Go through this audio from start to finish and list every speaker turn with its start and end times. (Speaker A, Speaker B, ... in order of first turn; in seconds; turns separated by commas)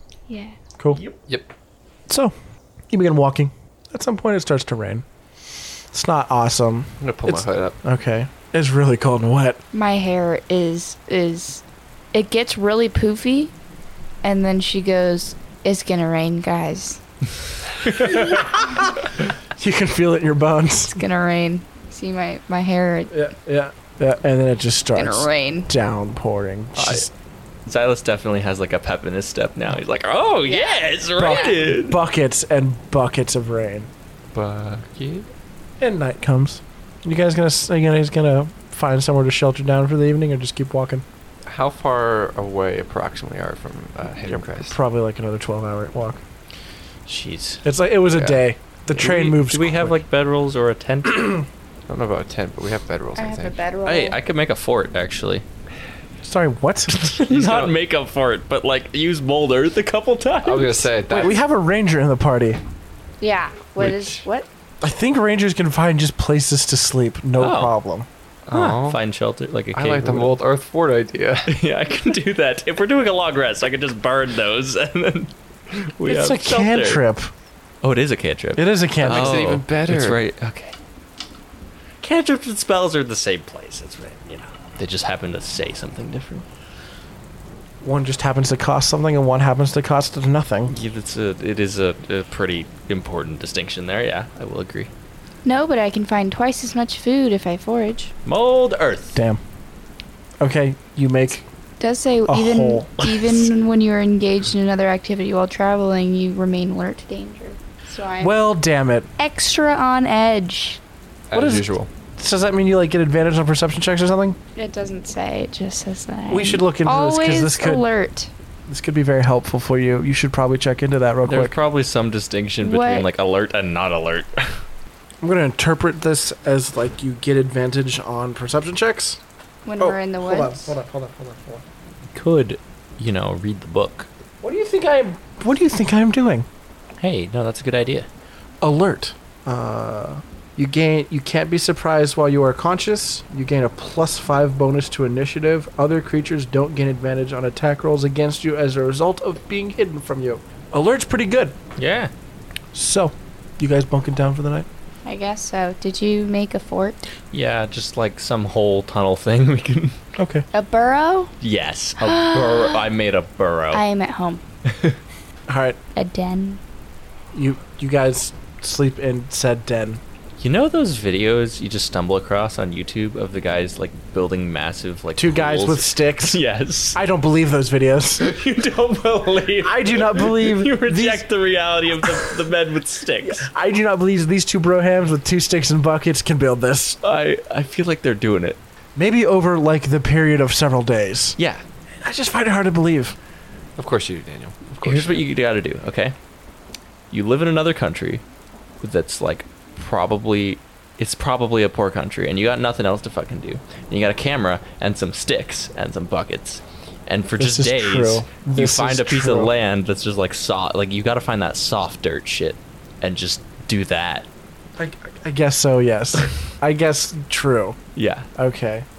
Speaker A: 0.3-0.6, Speaker B: 1.3-1.5, Speaker C: 2.1-2.3, Speaker C: 2.9-5.0, Speaker C: 5.9-9.6, Speaker B: 7.0-7.8, Speaker A: 9.7-13.5, Speaker A: 14.2-17.0, Speaker C: 17.8-20.9, Speaker A: 20.9-23.1, Speaker C: 23.1-27.1, Speaker A: 24.9-25.7, Speaker D: 26.8-27.1, Speaker D: 27.6-32.0, Speaker A: 30.4-31.4, Speaker C: 31.2-33.9, Speaker B: 34.3-35.3, Speaker C: 35.8-41.0, Speaker B: 41.5-44.7, Speaker C: 44.3-46.2, Speaker D: 47.0-47.6, Speaker C: 47.6-50.0, Speaker B: 48.1-48.4, Speaker D: 48.9-51.4, Speaker B: 51.9-53.6, Speaker A: 53.2-54.2, Speaker D: 53.8-55.4, Speaker C: 56.2-57.0, Speaker D: 56.9-60.9, Speaker B: 57.3-57.8, Speaker B: 60.4-61.4, Speaker C: 61.1-62.6, Speaker A: 63.2-64.5, Speaker C: 64.8-68.1, Speaker D: 67.4-67.7, Speaker B: 68.5-69.0, Speaker D: 68.5-70.3, Speaker B: 69.7-71.5, Speaker D: 71.5-77.0, Speaker C: 76.0-77.3, Speaker D: 77.8-80.8, Speaker C: 78.5-79.5, Speaker B: 79.0-80.2, Speaker D: 82.0-86.4, Speaker C: 87.8-90.7, Speaker D: 90.7-94.9, Speaker A: 95.4-98.1, Speaker D: 98.2-99.2, Speaker C: 99.1-99.4, Speaker C: 100.4-101.4, Speaker A: 101.8-108.3, Speaker C: 102.3-103.3, Speaker C: 108.2-109.1, Speaker A: 109.2-110.8, Speaker B: 111.3-111.9, Speaker C: 111.3-114.4, Speaker A: 114.5-118.3, Speaker C: 116.3-117.8, Speaker C: 118.7-121.5, Speaker D: 121.3-124.6, Speaker A: 122.6-123.0, Speaker C: 125.2-129.2, Speaker A: 129.6-130.7, Speaker C: 129.8-131.6, Speaker D: 132.1-134.1, Speaker C: 134.4-136.4, Speaker D: 137.0-138.1, Speaker C: 138.6-151.6, Speaker D: 151.8-152.1, Speaker C: 152.7-154.7, Speaker A: 155.0-157.1, Speaker D: 157.3-160.0, Speaker C: 160.2-160.4, Speaker A: 160.5-161.3, Speaker D: 161.4-163.8, Speaker A: 162.0-162.8, Speaker A: 163.7-164.4, Speaker D: 164.7-165.0, Speaker C: 165.5-165.8, Speaker A: 165.9-166.6, Speaker C: 167.3-170.0, Speaker D: 170.4-177.0, Speaker C: 175.2-176.4, Speaker C: 176.9-178.3, Speaker D: 178.2-183.4, Speaker C: 179.6-181.3, Speaker C: 182.0-182.3, Speaker C: 183.2-187.0, Speaker D: 187.0-188.6, Speaker C: 188.9-191.4, Speaker D: 191.4-191.6, Speaker C: 192.0-193.2, Speaker B: 193.8-195.2, Speaker D: 194.8-196.1, Speaker D: 197.1-198.2, Speaker D: 198.8-214.3, Speaker C: 207.4-209.5, Speaker C: 214.8-217.8, Speaker D: 217.9-218.3, Speaker C: 218.3-218.8